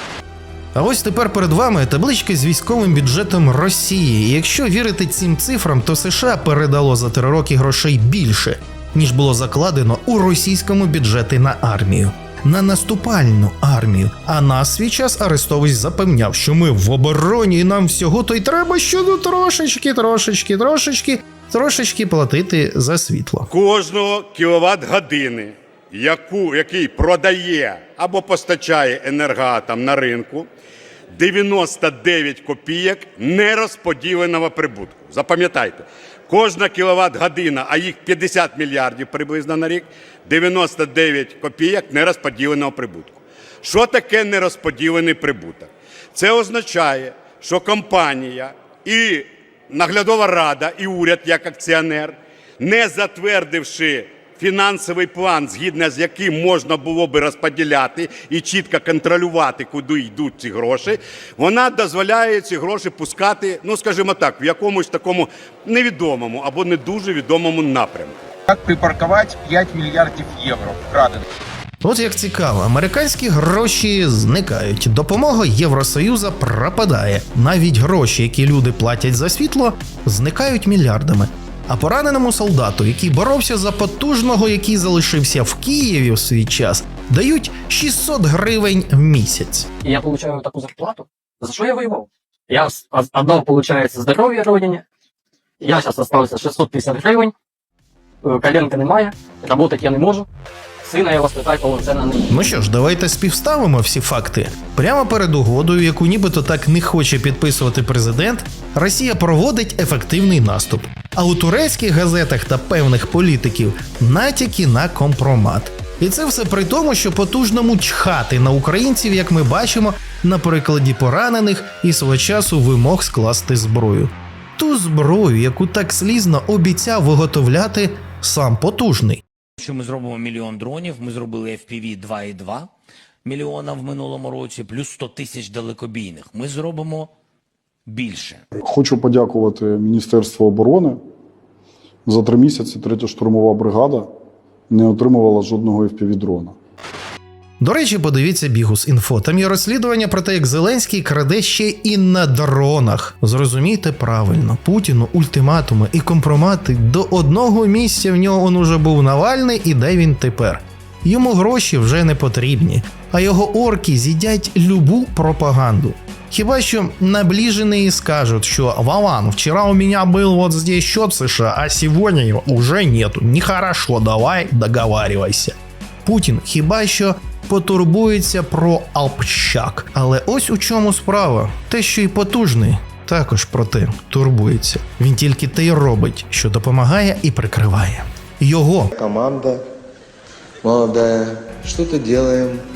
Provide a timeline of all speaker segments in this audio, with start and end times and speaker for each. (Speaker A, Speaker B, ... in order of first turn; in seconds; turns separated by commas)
Speaker A: 0.7-23.5, Speaker B: 23.5-30.5, Speaker B: 31.1-68.2, Speaker C: 68.5-71.2, Speaker A: 71.8-89.7, Speaker D: 89.8-94.8, Speaker D: 95.6-97.3, Speaker D: 98.2-100.2, Speaker D: 100.8-102.2, Speaker A: 102.3-129.2, Speaker E: 129.6-132.7, Speaker E: 133.2-137.1, Speaker E: 137.9-138.4, Speaker F: 138.6-141.0, Speaker F: 142.1-144.1, Speaker F: 144.7-146.5, Speaker A: 147.6-175.5, Speaker A: 176.1-188.9, Speaker G: 188.9-189.6, Speaker G: 190.6-192.6